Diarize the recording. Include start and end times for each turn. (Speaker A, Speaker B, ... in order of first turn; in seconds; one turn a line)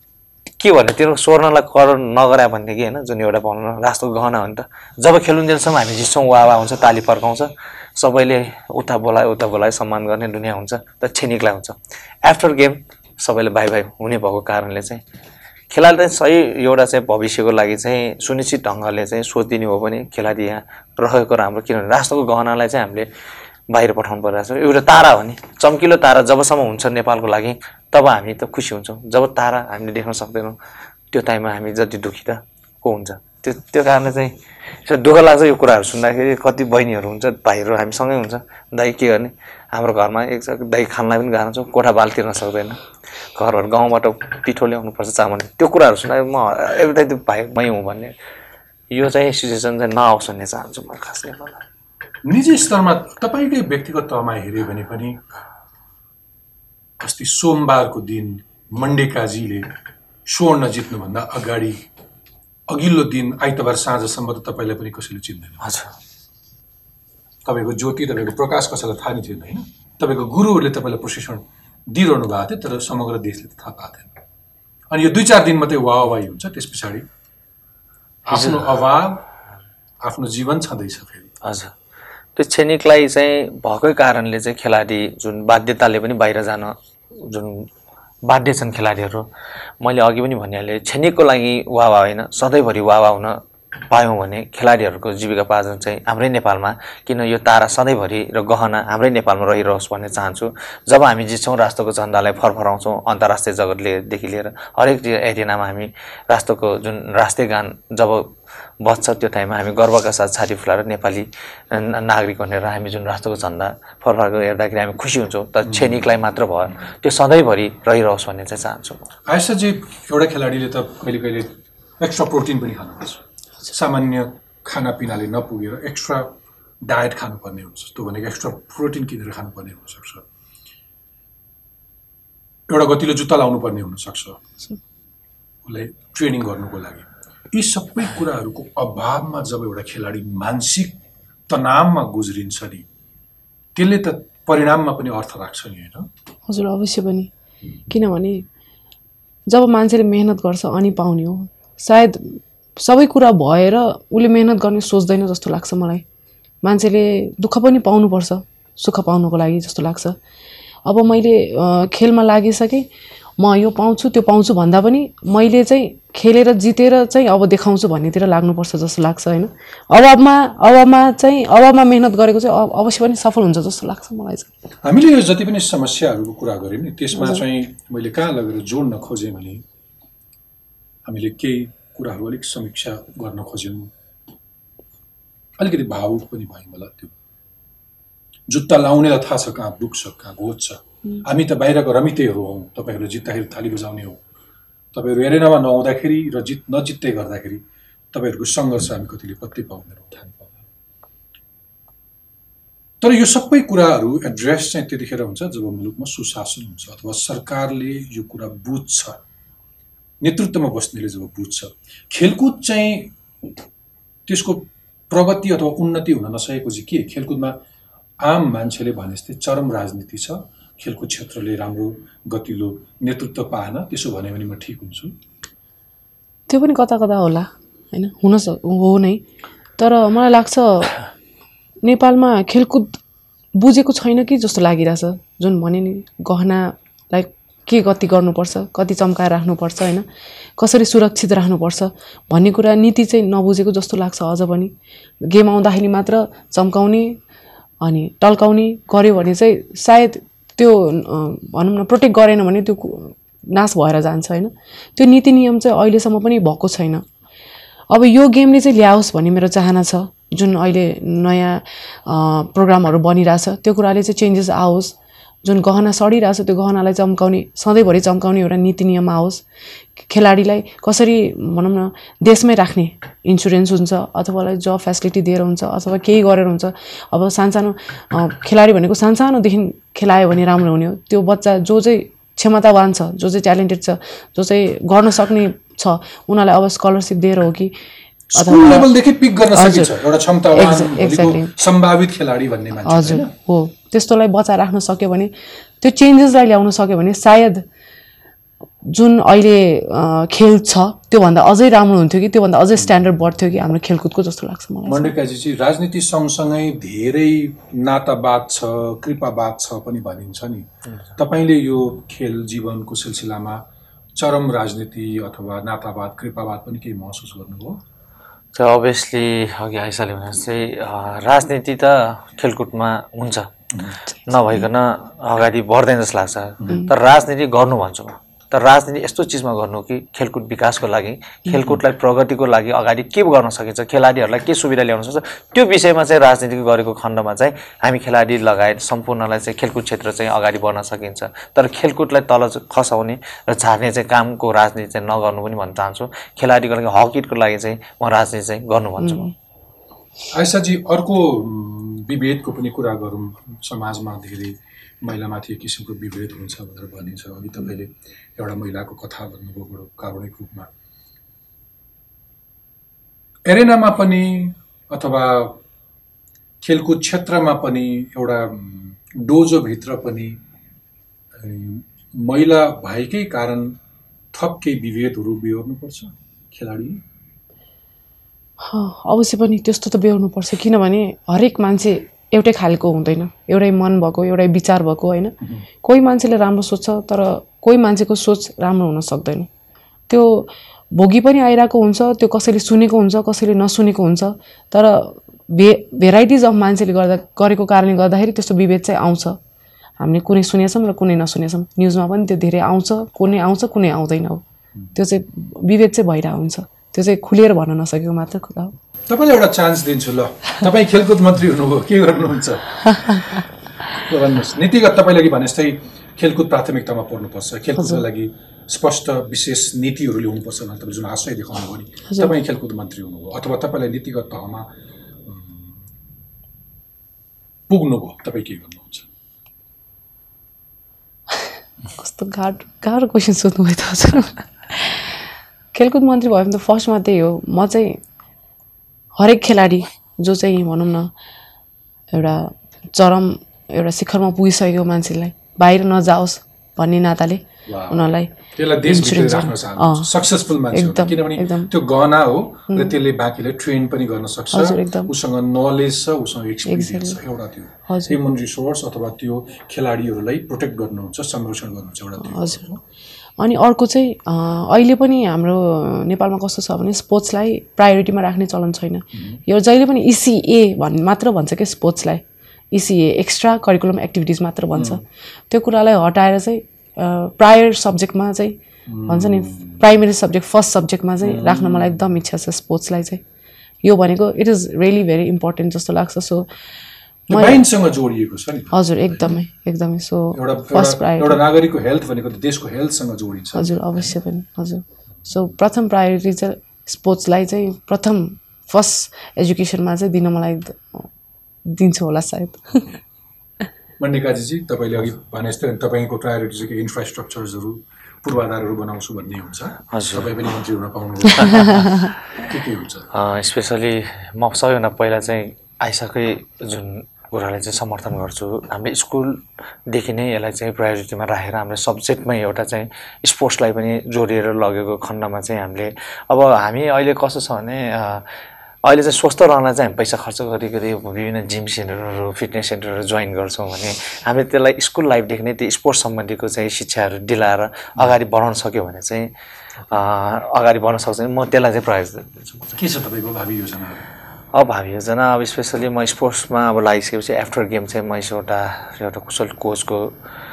Speaker A: 0.6-15.0
Speaker A: 15.7-23.1
Speaker A: 23.7-30.6
Speaker A: 31.1-34.3
Speaker A: 34.9-42.8
Speaker A: 43.4-48.1
Speaker A: 48.9-51.6
Speaker B: 52.2-55.2
Speaker B: 57.0-59.7
Speaker B: 60.3-61.9
Speaker B: 62.7-65.7
Speaker A: 65.6-65.9
Speaker B: 67.5-74.2
Speaker B: 74.9-77.1
Speaker B: 78.3-79.2
Speaker A: 78.3-78.7
Speaker B: 80.0-81.3
Speaker A: 81.4-81.7
Speaker A: 82.4-87.7
Speaker A: 88.2-119.1
Speaker B: 115.7-116.0
Speaker B: 119.3-130.2
Speaker B: 132.7-134.4
Speaker B: 135.7-141.0
Speaker B: 141.5-142.8
Speaker B: 143.8-146.1
Speaker C: 146.5-147.3
Speaker C: 147.9-148.5
Speaker C: 149.5-156.0
Speaker C: 156.6-160.2
Speaker C: 160.9-162.9
Speaker C: 163.4-174.5
Speaker B: 174.8-179.6
Speaker C: 177.2-177.4
Speaker B: 181.1-183.9
Speaker B: 185.6-187.1
Speaker B: 188.5-194.2
Speaker B: 194.9-200.6
Speaker B: 203.0-209.2
Speaker B: 210.2-213.5
Speaker B: 214.3-217.6
Speaker B: 218.2-225.2
Speaker C: 226.5-229.2
Speaker C: 229.8-231.0
Speaker C: 231.8-233.0
Speaker C: 233.6-240.1
Speaker C: 240.6-247.2
Speaker C: 247.8-257.0
Speaker C: 257.9-269.4
Speaker C: 270.0-287.7
Speaker C: 288.3-288.9
Speaker B: 288.3-293.3
Speaker C: 289.5-290.0
Speaker C: 290.5-291.5
Speaker C: 292.9-297.6
Speaker C: 298.8-305.1
Speaker B: 304.9-313.6
Speaker B: 314.2-317.8
Speaker A: 318.5-323.5
Speaker A: 324.3-349.3
Speaker B: 326.6-326.9
Speaker C: 349.0-349.3
Speaker B: 350.3-360.7
Speaker B: 363.5-365.6
Speaker B: 366.6-370.4
Speaker B: 371.3-373.8
Speaker B: 374.3-377.0
Speaker C: 378.6-389.5
Speaker C: 390.1-399.4
Speaker C: 400.0-404.4
Speaker C: 404.9-408.7
Speaker B: 409.1-424.7
Speaker C: 413.0-413.3
Speaker B: 425.2-425.9
Speaker B: 427.7-429.1
Speaker C: 431.4-435.2
Speaker C: 435.7-438.0
Speaker C: 439.2-441.1
Speaker C: 442.1-450.1
Speaker B: 447.7-462.8
Speaker C: 450.7-451.7
Speaker C: 454.5-455.1
Speaker C: 456.7-457.2
Speaker C: 457.9-458.2
Speaker C: 462.2-462.6
Speaker C: 463.4-483.2
Speaker B: 469.1-469.4
Speaker B: 474.7-475.0
Speaker B: 478.9-479.8
Speaker B: 481.2-482.0
Speaker C: 483.8-486.5
Speaker C: 487.3-487.6
Speaker B: 487.3-489.3
Speaker C: 488.7-491.4
Speaker B: 490.3-494.1
Speaker C: 493.6-501.1
Speaker C: 501.7-503.0
Speaker B: 504.0-513.1
Speaker A: 509.9-510.3
Speaker A: 513.1-528.3
Speaker A: 528.9-539.3
Speaker A: 539.9-542.7
Speaker B: 542.7-544.1
Speaker A: 544.5-550.2